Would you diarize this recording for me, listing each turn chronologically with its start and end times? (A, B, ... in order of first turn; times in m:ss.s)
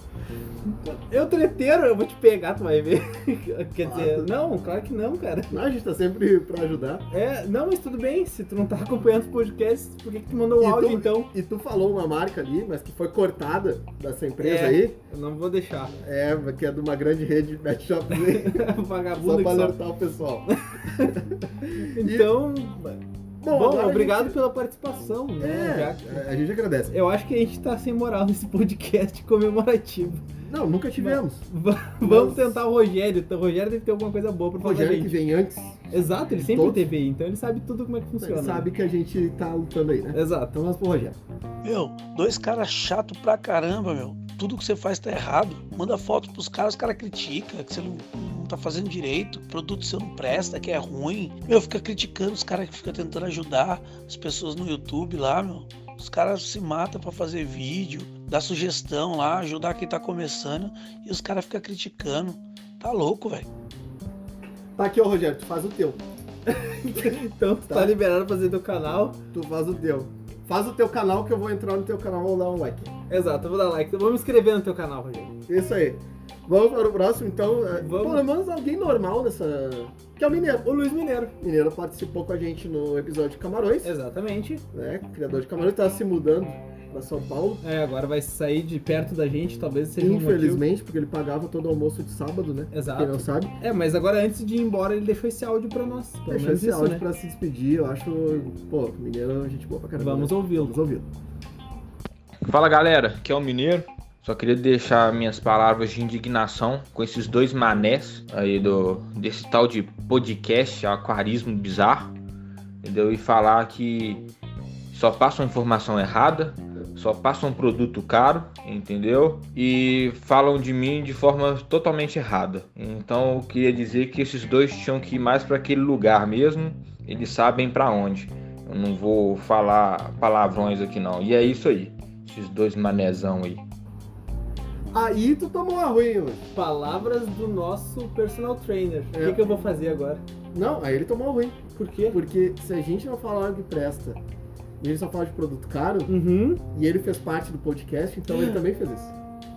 0:00.7-0:05.6 A
0:03.8-0:04.3 B
0:05.5-0:07.0 B
0:07.1-0:11.3 A
0:10.6-0:15.0 B
0:14.4-0:15.9 A
0:16.0-0:20.5 B
0:18.3-0:19.8 A
0:20.8-0:21.1 A
0:21.1-0:22.3 B
0:21.9-0:26.2 A
0:23.4-0:24.4 B
0:25.4-0:26.9 B
0:26.9-0:30.2 A
0:30.5-0:31.4 B
0:31.0-0:35.1 A
0:32.0-0:32.6 B
0:34.6-0:35.8 B
0:35.9-0:38.7 A
0:36.4-0:36.8 B
0:38.2-0:41.1 B
0:40.1-0:40.5 A
0:41.6-1:03.4 C
1:04.8-1:06.0 B
1:06.5-1:09.2 A
1:07.7-1:07.9 B
1:09.3-1:12.9 B
1:13.1-1:15.3 A
1:15.5-1:20.7 B
1:17.8-1:18.2 A
1:20.6-1:21.3 A
1:21.4-1:23.9 B
1:23.8-1:24.6 A
1:24.7-1:27.6 B
1:27.6-1:30.6 A
1:30.0-1:33.5 B
1:32.7-1:37.0 A
1:36.3-1:41.0 B
1:40.0-1:40.7 A
1:42.4-1:52.1 D
1:52.8-1:54.2 D
1:54.9-2:13.6 D
2:14.9-2:16.4 B
2:16.5-2:20.2 A
2:19.1-2:19.5 B
2:20.5-2:21.6 B
2:21.7-2:22.2 A
2:22.1-2:24.2 B
2:24.8-2:26.1 B
2:26.1-2:26.6 A
2:26.7-2:29.1 B
2:28.3-2:28.6 A